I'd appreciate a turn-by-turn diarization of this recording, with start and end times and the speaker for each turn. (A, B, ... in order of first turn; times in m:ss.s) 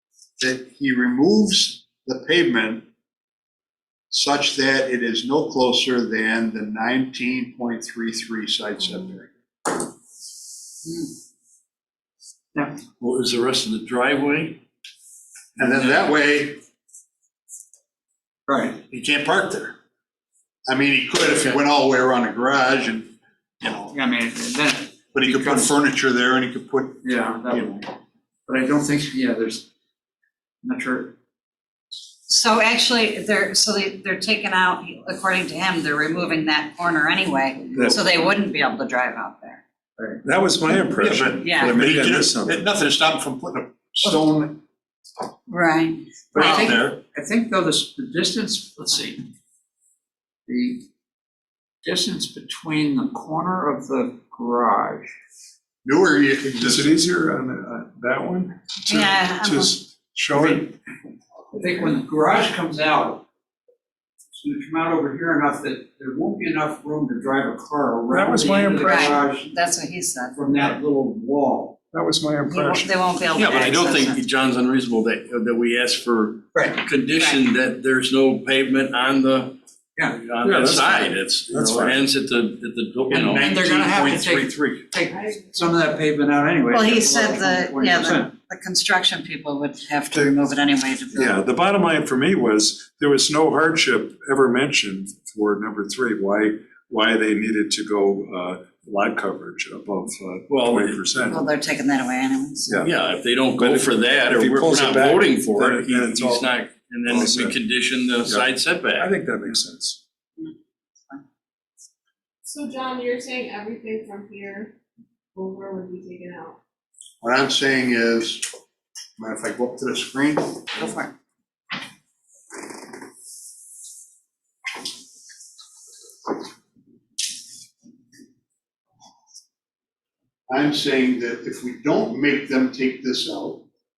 0:00.4-0:02.8 A
0:04.1-0:09.3 A
0:13.0-0:14.6 B
0:15.6-0:16.6 A
0:15.6-0:16.0 B
0:18.5-0:18.8 C
0:18.7-0:19.8 A
0:20.6-0:23.9 A
0:23.8-0:25.8 C
0:25.1-0:27.7 A
0:27.0-0:27.9 C
0:28.5-0:29.7 C
0:30.6-0:31.1 C
0:32.3-0:39.6 D
0:37.7-0:38.0 E
0:40.2-0:42.7 E
0:41.0-0:44.6 A
0:41.4-0:41.8 D
0:45.5-0:46.8 D
0:46.3-0:49.2 C
0:46.4-0:47.0 A
0:50.5-0:50.9 C
0:51.8-0:55.1 C
0:55.8-0:56.9 A
0:56.6-1:00.7 E
0:58.8-0:59.8 D
1:00.3-1:00.7 C
1:01.5-1:03.2 C
1:04.3-1:09.5 C
1:08.1-1:09.2 E
1:08.8-1:10.4 D
1:10.3-1:11.8 C
1:11.9-1:13.0 E
1:12.5-1:14.2 D
1:13.3-1:23.5 B
1:16.5-1:16.8 C
1:17.1-1:17.4 D
1:20.4-1:22.0 E
1:23.1-1:24.8 A
1:23.4-1:28.3 C
1:26.7-1:31.4 D
1:31.1-1:41.5 E
1:40.5-1:41.0 B
1:41.3-1:42.8 D
1:42.7-1:43.0 E
1:42.8-1:49.1 B
1:43.5-1:47.6 E
1:48.2-1:50.0 E
1:52.4-1:54.7 F
1:55.4-1:56.5 F
1:57.2-1:58.5 A
1:59.2-2:00.6 A
2:00.8-2:01.1 D
2:10.5-2:13.6 A